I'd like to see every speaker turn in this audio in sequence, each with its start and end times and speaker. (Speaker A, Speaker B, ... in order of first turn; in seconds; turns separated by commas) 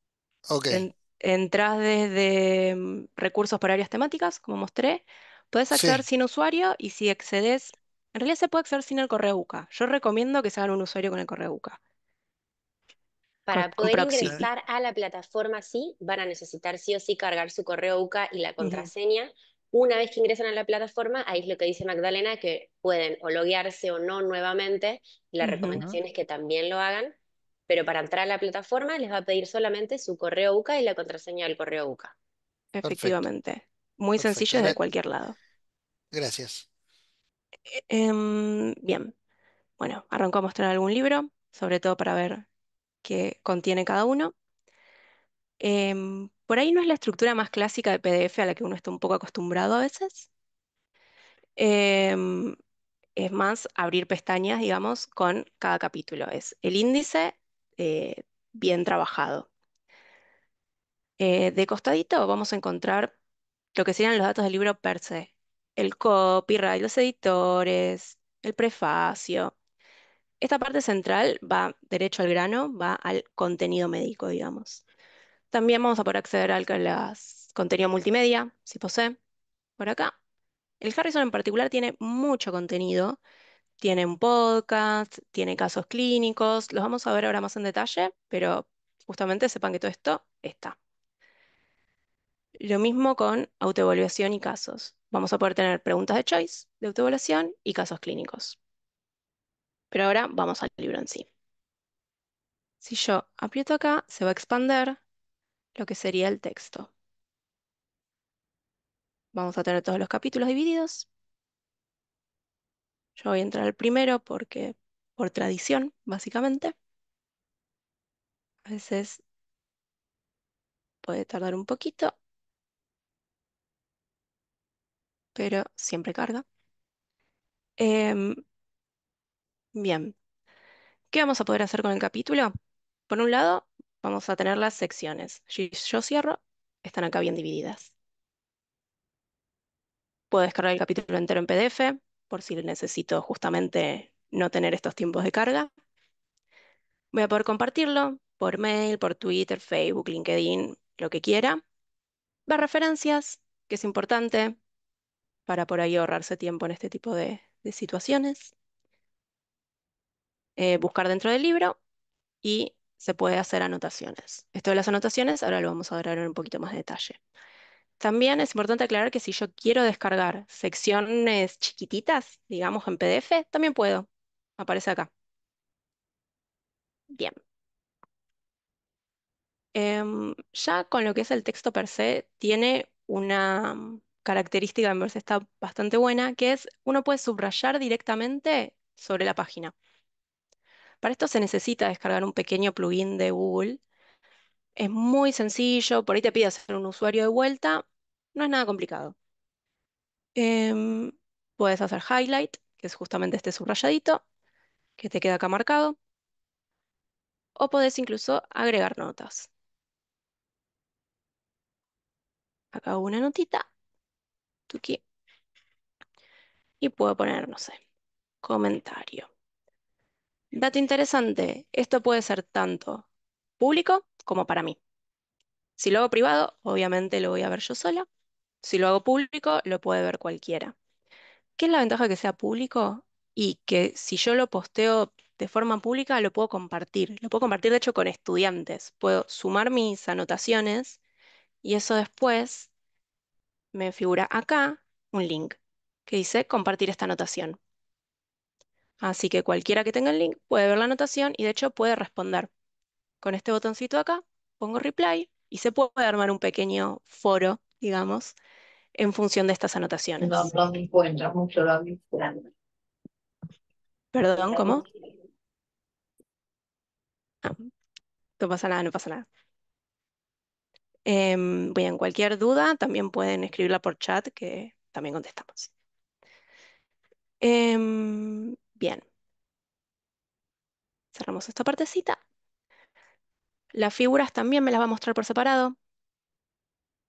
Speaker A: 0.5-0.8, Speaker B: 0.7-11.8, Speaker A: 5.7-6.0, Speaker C: 13.5-27.1, Speaker B: 13.5-14.4, Speaker A: 13.6-14.4, Speaker B: 18.6-18.9, Speaker B: 25.4-25.9, Speaker C: 27.7-32.1, Speaker B: 32.7-35.4, Speaker A: 32.8-33.2, Speaker A: 34.2-34.8, Speaker A: 36.1-36.7, Speaker B: 37.7-39.1, Speaker B: 39.8-42.4, Speaker B: 43.0-44.3, Speaker B: 45.6-50.3, Speaker B: 51.6-52.6, Speaker B: 53.2-59.5, Speaker B: 61.2-63.1, Speaker B: 63.7-69.5, Speaker B: 70.4-74.8, Speaker B: 75.5-79.2, Speaker B: 79.8-80.2, Speaker B: 80.8-83.2, Speaker B: 83.8-90.8, Speaker B: 92.6-98.6, Speaker B: 99.9-101.2, Speaker B: 102.8-105.0, Speaker B: 105.7-106.9, Speaker B: 109.3-111.1, Speaker B: 113.2-116.7, Speaker B: 118.7-119.2, Speaker B: 121.0-122.1, Speaker B: 125.3-126.4, Speaker B: 127.8-128.4, Speaker B: 129.7-130.1, Speaker B: 131.1-132.5, Speaker B: 133.1-137.9, Speaker B: 140.3-145.7, Speaker B: 147.1-151.6, Speaker B: 152.5-154.6, Speaker B: 155.5-158.5, Speaker B: 160.6-161.8, Speaker B: 162.4-167.2, Speaker B: 168.0-174.1, Speaker B: 174.6-175.1, Speaker B: 177.1-177.3, Speaker B: 179.7-189.7, Speaker B: 191.0-193.8, Speaker B: 194.8-199.1, Speaker B: 200.3-204.2, Speaker B: 205.0-206.0, Speaker B: 207.6-209.5, Speaker B: 212.7-213.7, Speaker B: 214.7-215.0, Speaker B: 216.8-217.8, Speaker B: 218.4-219.3, Speaker B: 220.5-223.1, Speaker B: 223.6-224.8, Speaker B: 225.8-228.1, Speaker B: 228.6-230.7, Speaker B: 231.6-241.0, Speaker B: 241.6-242.7, Speaker B: 243.7-247.6, Speaker B: 249.0-252.5, Speaker B: 253.2-258.3, Speaker B: 258.9-260.4, Speaker D: 260.2-262.4, Speaker B: 264.1-264.8, Speaker D: 264.4-264.8, Speaker B: 267.4-267.7, Speaker B: 268.4-269.2, Speaker B: 271.1-275.7, Speaker B: 277.4-279.0, Speaker B: 281.1-282.2, Speaker B: 283.7-285.8